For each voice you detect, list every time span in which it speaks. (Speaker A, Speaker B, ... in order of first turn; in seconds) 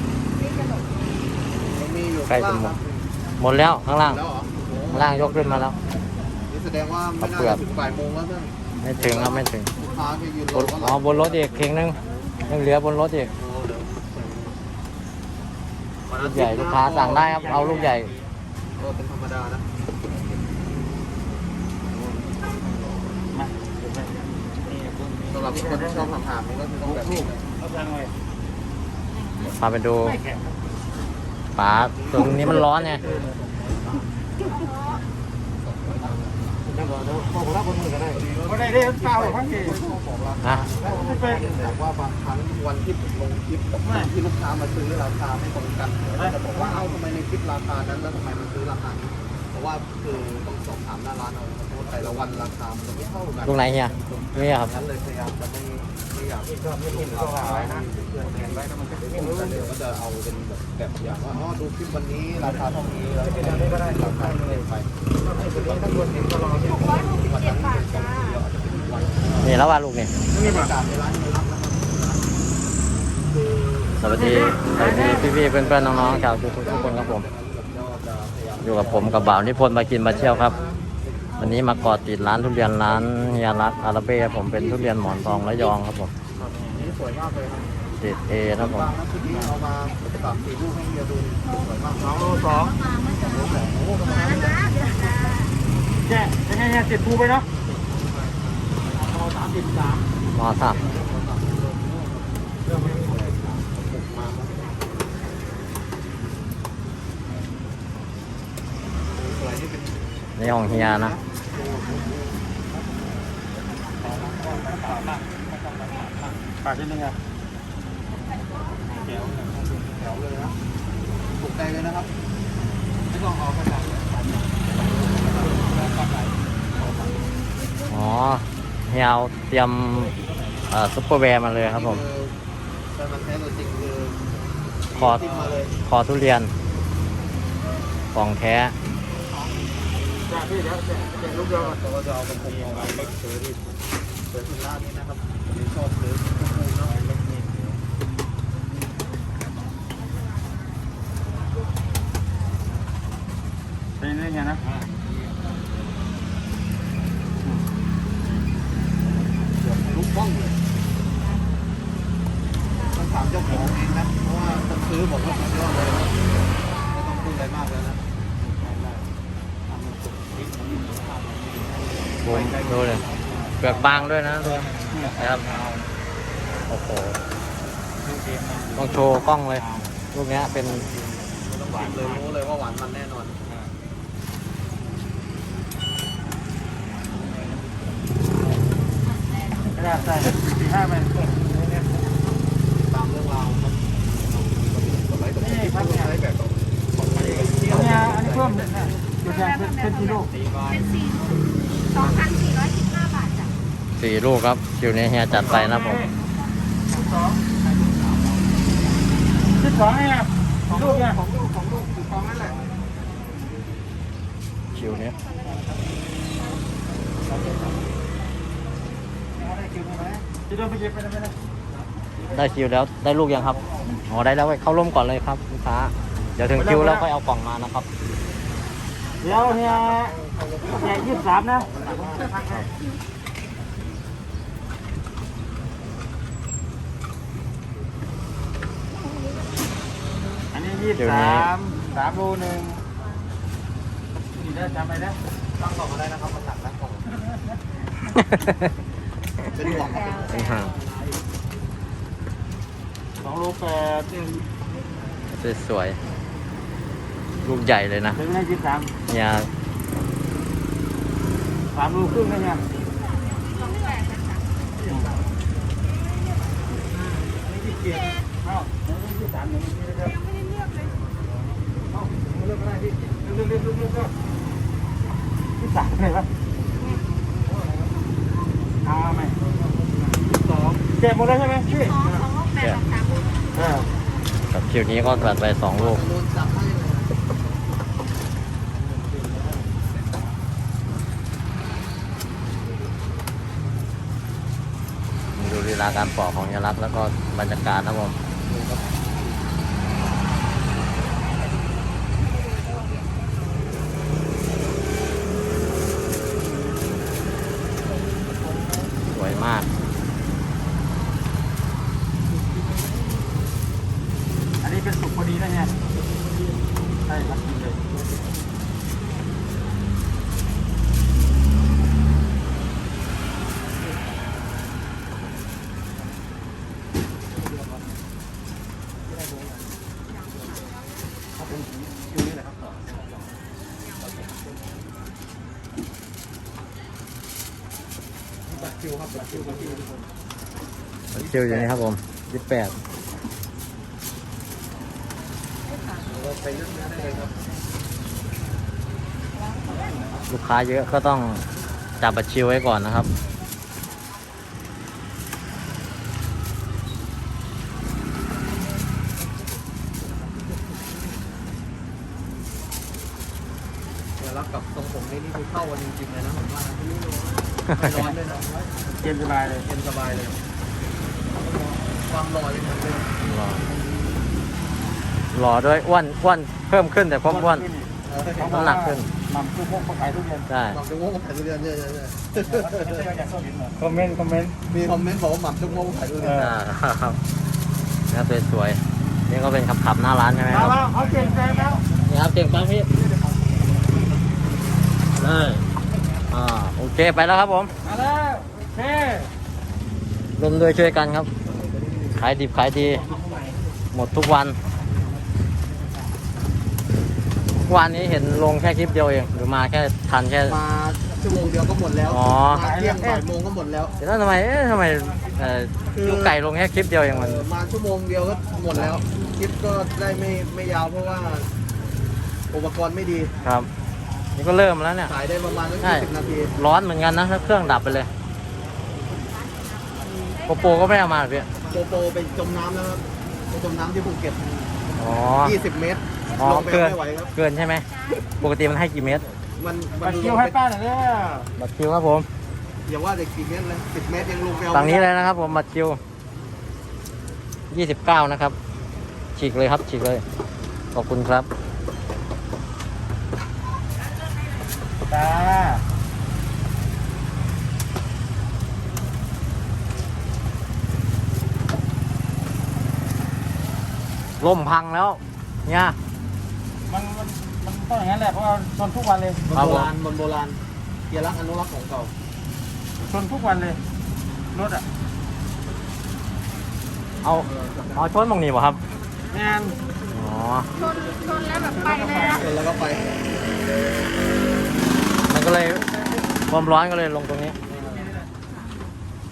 Speaker A: 1.7-3.0, 4.0-5.7, 6.5-11.6, 13.4-14.6, 16.1-17.9, 18.8-19.7, 25.3-27.5, 31.9-34.0, 35.7-36.3, 38.1-53.8, 54.4-69.6, 70.2-72.3, 74.8-81.4, 84.5-85.8, 86.8-87.8, 88.5-92.2, 93.4-95.3, 98.0-98.4, 100.8-102.1, 102.6-104.5, 109.1-110.0, 110.6-112.3, 119.8-120.6, 121.4-122.1, 123.1-124.0, 125.1-125.7, 131.7-132.3, 132.9-134.2, 134.9-135.7, 141.7-143.7, 144.3-147.0, 159.6-160.6, 162.9-166.1, 166.9-168.0, 181.5-183.4, 192.8-196.6, 197.1-198.8, 200.3-200.9, 211.1-212.5, 229.6-230.9, 231.7-232.4, 245.6-247.1, 249.4-250.6, 280.4-280.8, 285.8-287.1, 338.5-339.8, 341.2-341.8, 346.0-347.3, 364.2-366.8, 367.8-368.5, 369.6-370.4, 372.0-373.1, 378.1-378.5, 380.7-383.1, 384.7-386.5, 410.5-414.0, 415.9-416.4, 417.1-421.5, 422.5-423.3, 425.1-426.6, 431.7-434.8, 435.4-437.3, 439.6-440.6, 442.9-445.1, 469.5-472.1, 477.6-477.9, 480.8-483.2, 487.7-488.1
Speaker B: 2.3-2.7, 3.4-4.2, 4.9-5.8, 7.2-7.6, 8.8-9.7, 10.5-13.3, 16.2-18.1, 29.6-30.2, 31.6-33.0, 53.5-54.8, 69.4-70.1, 74.0-77.2, 78.6-80.6, 81.4-86.1, 88.0-88.9, 100.3-100.8, 110.4-111.2, 127.9-130.2, 130.7-132.0, 134.9-135.2, 135.8-136.5, 138.1-138.8, 172.2-173.1, 173.6-175.5, 176.7-177.2, 178.8-180.9, 204.0-206.0, 214.8-215.2, 222.3-227.9, 241.0-241.5, 248.1-248.7, 250.3-250.7, 255.4-256.0, 257.4-258.2, 259.1-259.5, 282.6-282.8, 284.5-286.1, 295.4-298.2, 309.1-309.7, 341.1-342.8, 350.3-351.4, 352.0-353.1, 367.7-368.0, 373.2-373.7, 375.3-377.7, 378.4-379.1, 380.5-380.8, 386.4-387.2, 388.1-390.8, 392.1-392.9, 395.2-395.6, 396.3-397.7, 400.4-401.3, 402.2-403.0, 403.9-404.6, 407.7-410.6, 412.1-412.7, 414.0-417.4, 418.7-419.0, 423.4-423.7, 424.4-425.1, 425.8-428.1, 430.5-431.5, 435.0-435.6, 436.4-439.3, 441.6-442.3, 444.7-446.0, 447.7-448.6, 449.4-450.2, 450.9-451.5, 464.4-466.0, 469.5-469.9, 477.2-478.8, 480.1-480.7, 485.3-485.9, 486.5-487.6
Speaker C: 17.4-18.3, 23.3-26.1, 26.9-28.1, 30.1-30.5, 36.7-39.9, 40.8-41.7, 43.8-44.1, 46.2-47.0, 56.5-59.7, 63.4-64.6, 65.2-66.7, 70.3-70.7, 74.1-75.2, 86.4-86.9, 92.0-93.7, 96.0-97.5, 99.0-100.0, 114.1-115.2, 116.5-117.2, 118.9-119.5, 125.9-126.2, 140.2-141.8, 142.4-143.1, 147.0-147.7, 154.0-154.6, 168.5-169.0, 169.7-171.6, 172.4-173.6, 174.9-175.8, 178.0-179.9, 181.7-182.1, 189.7-191.3, 195.4-196.1, 197.1-200.3, 205.4-206.1, 206.9-207.4, 209.5-211.2, 219.6-221.3, 226.6-227.0, 229.2-230.2, 230.8-232.6, 240.5-242.8, 244.3-245.2, 253.2-254.4, 258.2-258.9, 261.7-262.6, 267.6-270.1, 272.5-274.1, 275.6-276.3, 278.9-279.4, 281.0-282.2, 283.6-283.9, 314.6-315.7, 317.1-317.8, 331.4-332.8, 339.3-340.0, 369.0-369.7, 377.3-380.5, 382.4-384.6, 386.2-386.5, 390.5-391.9, 397.8-399.3, 412.6-413.3, 440.0-441.5, 455.1-455.8, 466.9-469.4, 473.0-473.8, 474.5-474.8, 479.3-479.8, 481.6-482.5
Speaker D: 34.6-35.0, 67.0-67.3, 92.1-93.5, 94.5-95.5, 199.3-200.0, 200.9-201.4, 201.9-203.5, 263.5-264.3, 281.7-283.5, 481.1-482.4